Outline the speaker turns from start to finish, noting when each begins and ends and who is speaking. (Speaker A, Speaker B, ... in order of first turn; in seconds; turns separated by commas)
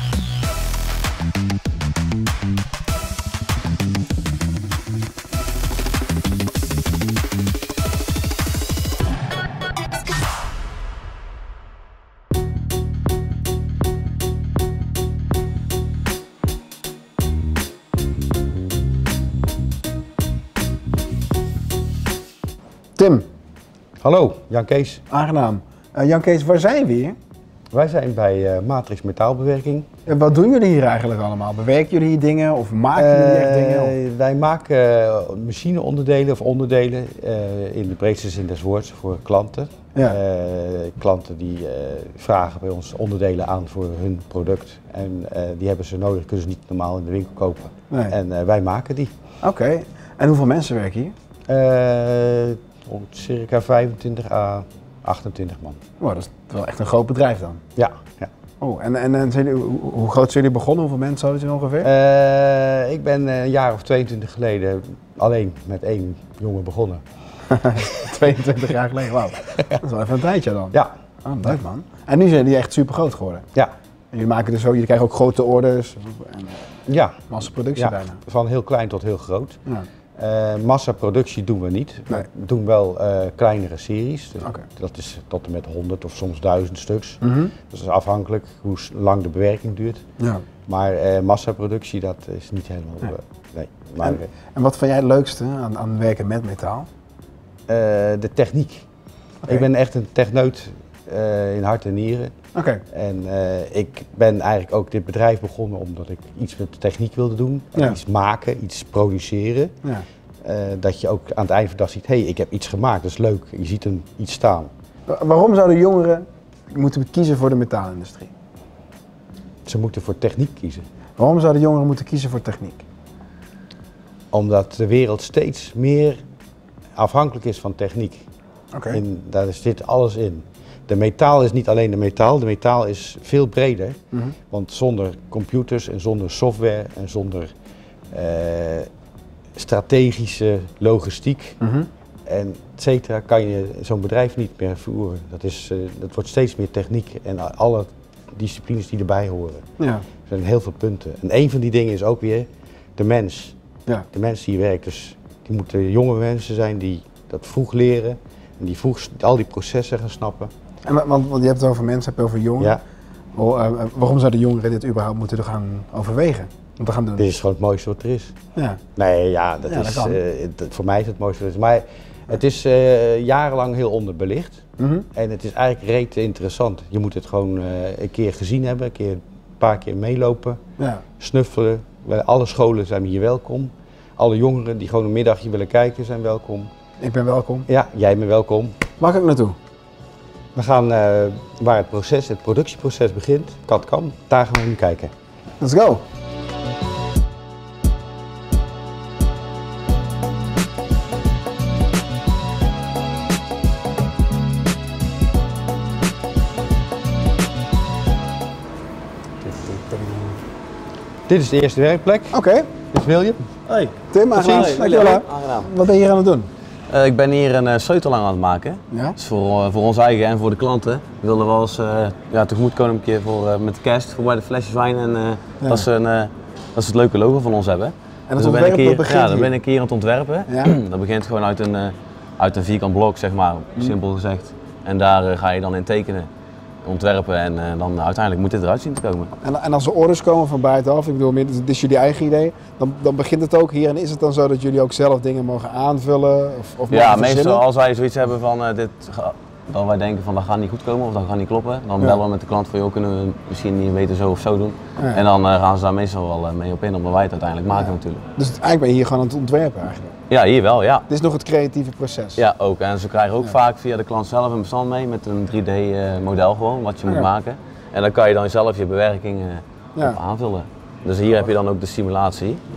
Speaker A: 22.9-23.2, Speaker B: 24.0-25.0, Speaker A: 25.1-27.1, Speaker B: 27.7-29.9, Speaker A: 30.1-34.0, Speaker B: 33.0-49.1, Speaker A: 39.9-40.2, Speaker A: 47.9-48.1, Speaker A: 49.4-51.1, Speaker B: 51.5-55.8, Speaker A: 56.0-57.6, Speaker B: 57.8-58.3, Speaker A: 58.6-61.9, Speaker B: 61.8-67.0, Speaker A: 67.5-73.5, Speaker A: 74.1-76.6, Speaker B: 76.9-77.2, Speaker A: 77.3-78.2, Speaker B: 77.8-79.6, Speaker B: 80.2-90.0, Speaker A: 87.2-87.5, Speaker A: 90.2-90.4, Speaker B: 90.7-94.2, Speaker A: 94.0-96.9, Speaker B: 97.7-98.8, Speaker B: 99.5-102.3, Speaker A: 102.5-102.8, Speaker B: 102.9-109.7, Speaker B: 110.4-114.7, Speaker A: 115.1-118.3, Speaker B: 119.7-120.8, Speaker A: 121.2-122.8, Speaker B: 124.3-126.2, Speaker B: 127.0-128.2, Speaker A: 128.7-129.0, Speaker B: 128.9-134.0, Speaker B: 134.5-137.5, Speaker B: 138.1-138.9, Speaker B: 139.6-141.6, Speaker A: 141.6-141.9, Speaker B: 142.2-149.6, Speaker A: 149.8-150.1, Speaker B: 150.3-153.5, Speaker B: 154.1-160.5, Speaker A: 160.8-162.8, Speaker A: 163.3-167.3, Speaker B: 167.2-168.3, Speaker B: 168.9-180.6, Speaker A: 169.7-170.2, Speaker A: 174.8-175.1, Speaker B: 181.2-186.7, Speaker A: 187.0-187.7, Speaker B: 187.7-188.8, Speaker A: 189.0-189.6, Speaker B: 190.5-195.1, Speaker A: 195.6-196.0, Speaker B: 209.4-210.1, Speaker B: 211.3-212.3, Speaker A: 212.3-212.7, Speaker B: 212.9-213.5, Speaker C: 213.7-215.7, Speaker A: 214.1-216.5, Speaker B: 214.3-214.8, Speaker C: 216.9-236.3, Speaker A: 218.9-219.2, Speaker A: 225.6-225.8, Speaker A: 228.3-229.5, Speaker A: 230.5-230.7, Speaker C: 236.8-239.3, Speaker A: 239.4-247.6, Speaker C: 246.9-258.2, Speaker A: 257.7-260.1, Speaker C: 260.3-261.0, Speaker A: 261.1-262.4, Speaker C: 262.4-272.6